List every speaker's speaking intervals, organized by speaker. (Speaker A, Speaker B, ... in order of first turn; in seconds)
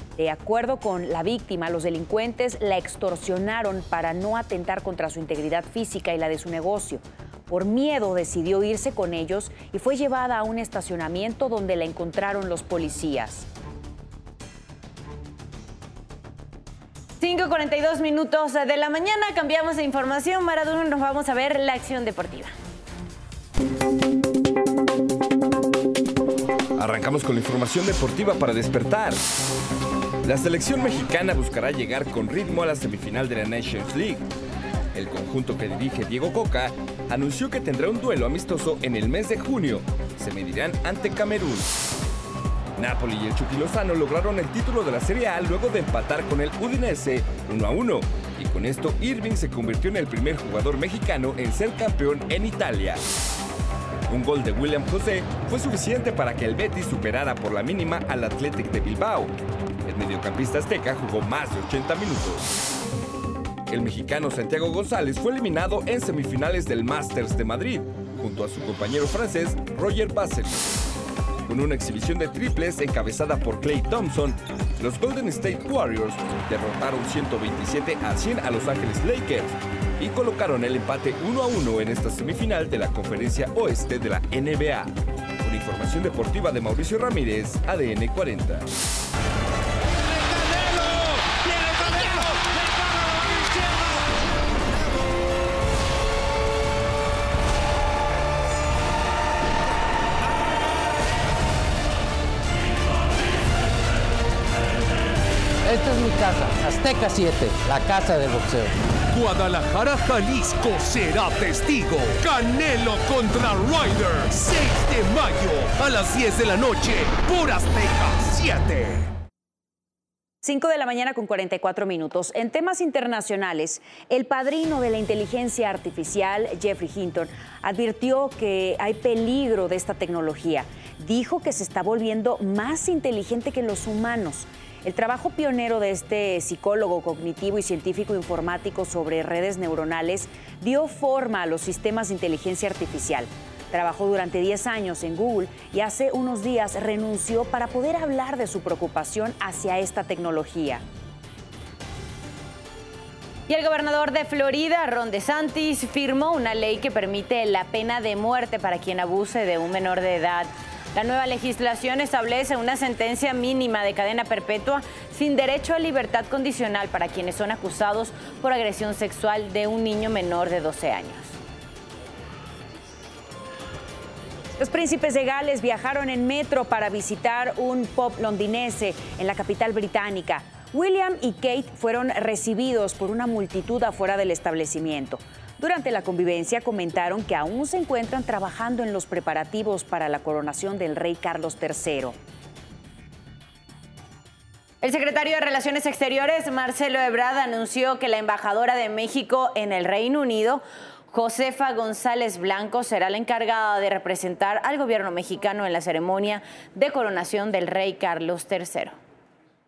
Speaker A: 0.2-13.5, 120.4-150.8, 174.6-192.2
Speaker B: 17.2-22.5, 153.5-171.4, 194.8-208.9
Speaker C: 26.8-29.2, 30.2-34.2, 34.9-41.7, 42.8-53.0, 54.1-59.3, 59.9-62.5, 63.7-70.8, 71.5-88.7
Speaker D: 90.7-92.2, 92.9-93.4, 109.1-119.1
Speaker E: 105.6-108.8